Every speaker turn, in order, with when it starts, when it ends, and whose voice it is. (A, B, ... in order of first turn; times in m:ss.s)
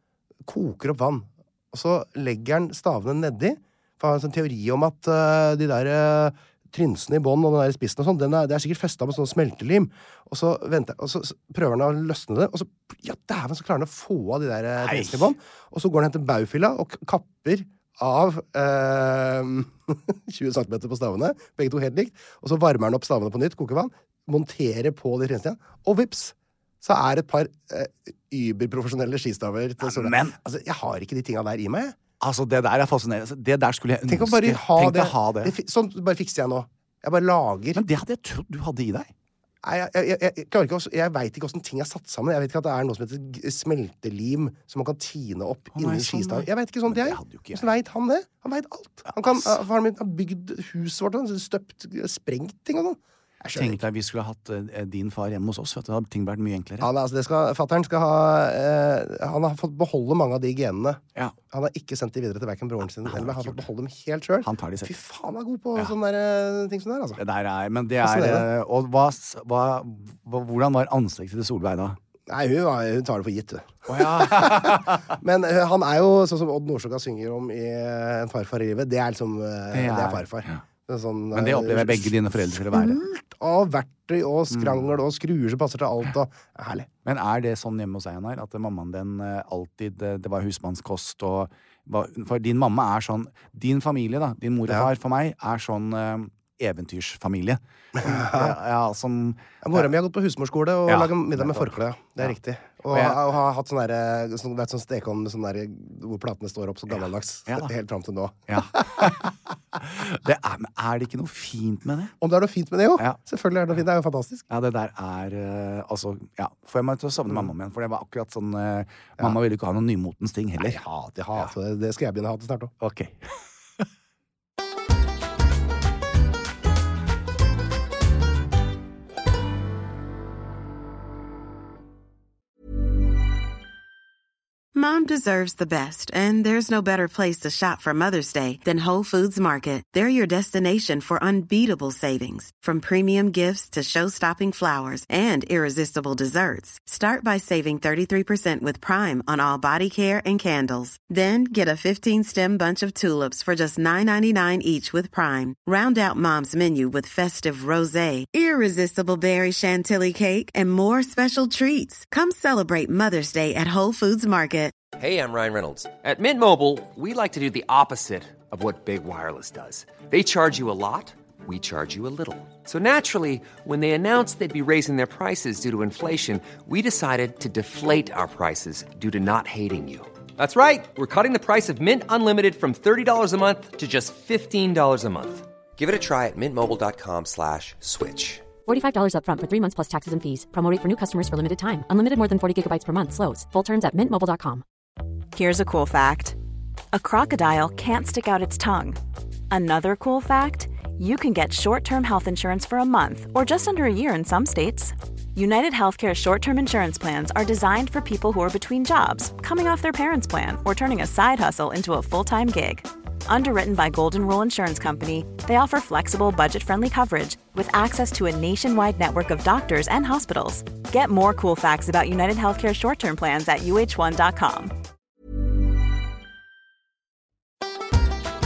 0:00.5-0:32.0 A
0:14.8-0:15.3 B
0:29.8-0:30.4 B
0:32.2-0:35.5 B
0:34.1-0:37.8 A
0:37.8-0:39.1 B
0:39.6-0:53.8 A
0:45.8-0:47.7 B
0:49.1-0:49.5 B
0:53.5-0:56.9 B
0:56.8-1:07.2 A
1:03.0-1:03.6 B
1:04.4-1:04.9 B
1:07.2-1:12.0 B
1:08.0-1:08.5 A
1:12.3-1:26.9 A
1:13.9-1:15.1 B
1:19.7-1:20.6 B
1:21.3-1:23.0 B
1:24.5-1:24.8 B
1:27.0-1:39.9 B
1:38.0-1:38.6 A
1:39.6-1:49.1 A
1:40.9-1:41.7 B
1:42.9-1:43.2 B
1:48.5-1:52.2 B
1:52.2-1:54.5 A
1:54.5-2:00.8 B
2:00.6-2:02.7 A
2:02.8-2:03.2 B
2:14.7-2:44.8 C
2:45.0-3:08.5 D
3:08.6-3:14.6 E
3:15.3-3:16.4 F
3:16.9-3:19.0 F
3:19.5-3:44.7 F